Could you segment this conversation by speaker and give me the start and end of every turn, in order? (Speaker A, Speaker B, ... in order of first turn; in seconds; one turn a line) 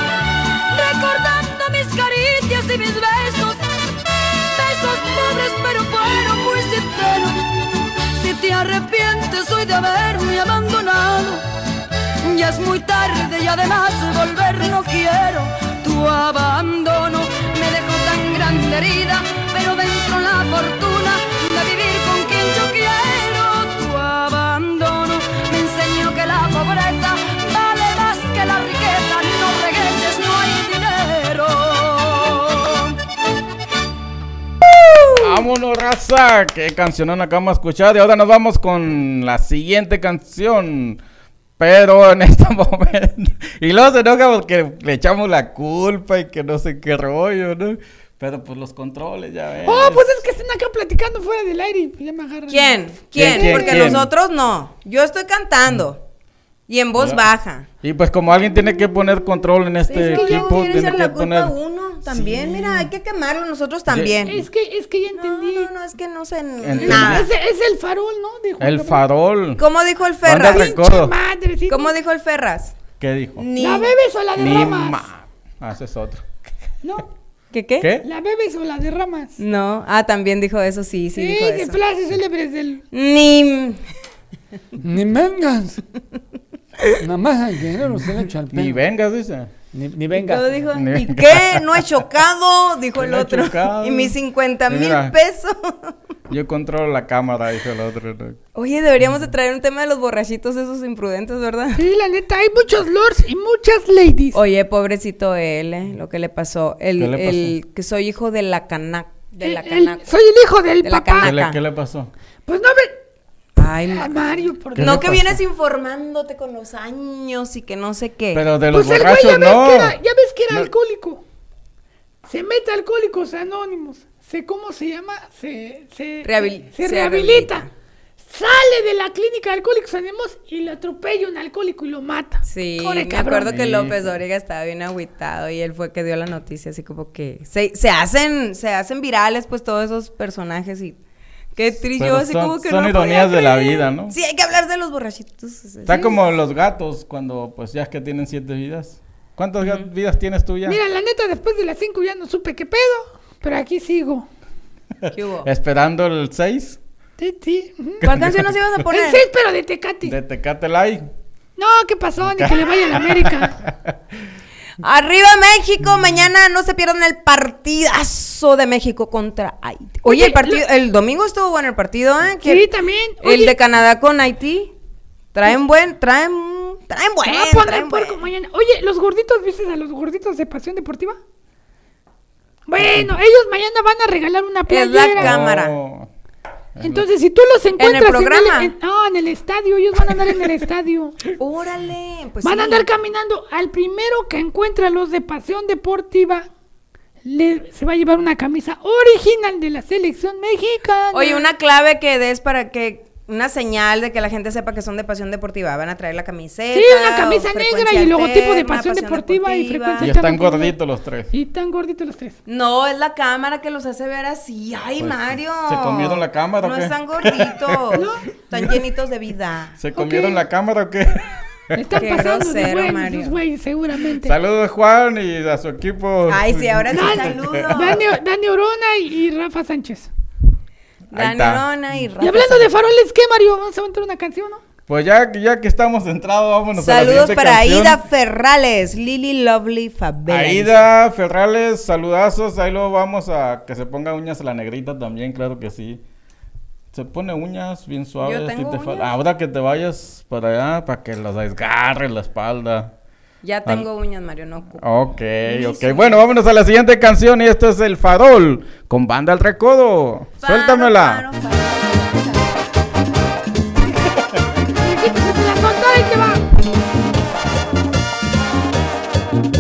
Speaker A: 0.7-3.6
Speaker A: 4.5-7.5
Speaker A: 8.1-11.4
Speaker A: 12.2-33.0
Speaker B: 35.2-41.0
Speaker B: 41.6-50.2
Speaker C: 49.6-54.0
Speaker D: 52.5-56.0
Speaker B: 53.1-54.1
Speaker D: 56.7-57.7
Speaker B: 57.0-57.2
Speaker B: 57.8-61.5
Speaker D: 59.9-64.4
Speaker C: 59.9-60.6
Speaker B: 62.0-62.9
Speaker B: 63.9-64.1
Speaker C: 64.3-65.7
Speaker D: 65.1-67.3
Speaker B: 66.6-67.3
Speaker C: 66.8-69.0
Speaker B: 68.6-69.6
Speaker D: 69.6-70.7
Speaker B: 70.2-71.2
Speaker C: 70.4-71.9
Speaker D: 71.7-72.8
Speaker B: 73.0-73.4
Speaker D: 73.4-73.9
Speaker C: 73.6-75.0
Speaker B: 74.4-76.2
Speaker D: 77.5-77.9
Speaker B: 77.8-78.1
Speaker C: 78.0-79.4
Speaker D: 79.4-81.8
Speaker C: 81.2-82.8
Speaker D: 82.9-83.8
Speaker E: 84.8-85.8
Speaker E: 87.0-88.8
Speaker B: 88.5-89.5
Speaker E: 89.7-90.6
Speaker D: 90.1-95.9
Speaker B: 90.7-92.0
Speaker B: 93.0-94.2
Speaker B: 94.7-95.2
Speaker B: 96.3-98.4
Speaker D: 98.5-101.8
Speaker C: 101.8-104.4
Speaker D: 104.3-110.0
Speaker B: 107.0-107.5
Speaker C: 109.4-111.3
Speaker D: 110.8-111.6
Speaker B: 111.2-112.1
Speaker C: 112.5-113.0
Speaker D: 113.6-114.2
Speaker C: 113.9-115.0
Speaker B: 114.8-115.4
Speaker D: 114.8-118.5
Speaker B: 118.3-120.0
Speaker C: 118.7-121.2
Speaker C: 122.3-127.6
Speaker D: 126.2-127.7
Speaker C: 128.3-133.5
Speaker D: 132.4-141.0
Speaker B: 133.4-134.2
Speaker D: 141.6-146.2
Speaker B: 142.0-144.2
Speaker B: 145.9-150.8
Speaker C: 150.7-154.3
Speaker D: 155.1-155.5
Speaker B: 155.4-156.8
Speaker C: 157.2-158.0
Speaker B: 158.0-158.6
Speaker D: 158.0-159.2
Speaker C: 158.9-160.2
Speaker B: 160.1-161.1
Speaker C: 161.6-163.6
Speaker B: 162.4-163.9
Speaker D: 164.8-172.7
Speaker C: 170.1-170.6
Speaker C: 172.4-173.6
Speaker D: 173.2-174.7
Speaker D: 175.3-178.2
Speaker C: 177.2-181.2
Speaker C: 182.7-185.3
Speaker B: 182.8-183.1
Speaker D: 184.7-185.7
Speaker B: 185.2-186.1
Speaker B: 186.8-187.1
Speaker C: 186.8-191.2
Speaker D: 187.8-188.7
Speaker D: 191.4-192.9
Speaker C: 192.4-196.5
Speaker C: 197.2-201.5
Speaker D: 201.1-210.1
Speaker C: 206.7-210.8
Speaker B: 210.0-211.3
Speaker C: 211.3-212.4
Speaker D: 212.5-219.8
Speaker B: 215.0-218.1
Speaker C: 218.0-218.3
Speaker B: 219.8-222.0
Speaker C: 219.9-220.4
Speaker C: 221.8-224.3
Speaker D: 222.0-223.4
Speaker B: 224.2-228.0
Speaker D: 226.3-228.1
Speaker C: 226.9-230.1
Speaker D: 231.1-232.7
Speaker B: 231.1-231.6
Speaker C: 232.2-234.6
Speaker B: 234.9-238.0
Speaker D: 236.8-240.8
Speaker B: 240.3-246.0
Speaker B: 246.9-252.9
Speaker D: 248.2-249.1
Speaker D: 253.4-254.9
Speaker B: 254.8-261.2
Speaker D: 255.4-256.2
Speaker D: 260.4-262.6
Speaker C: 264.8-266.4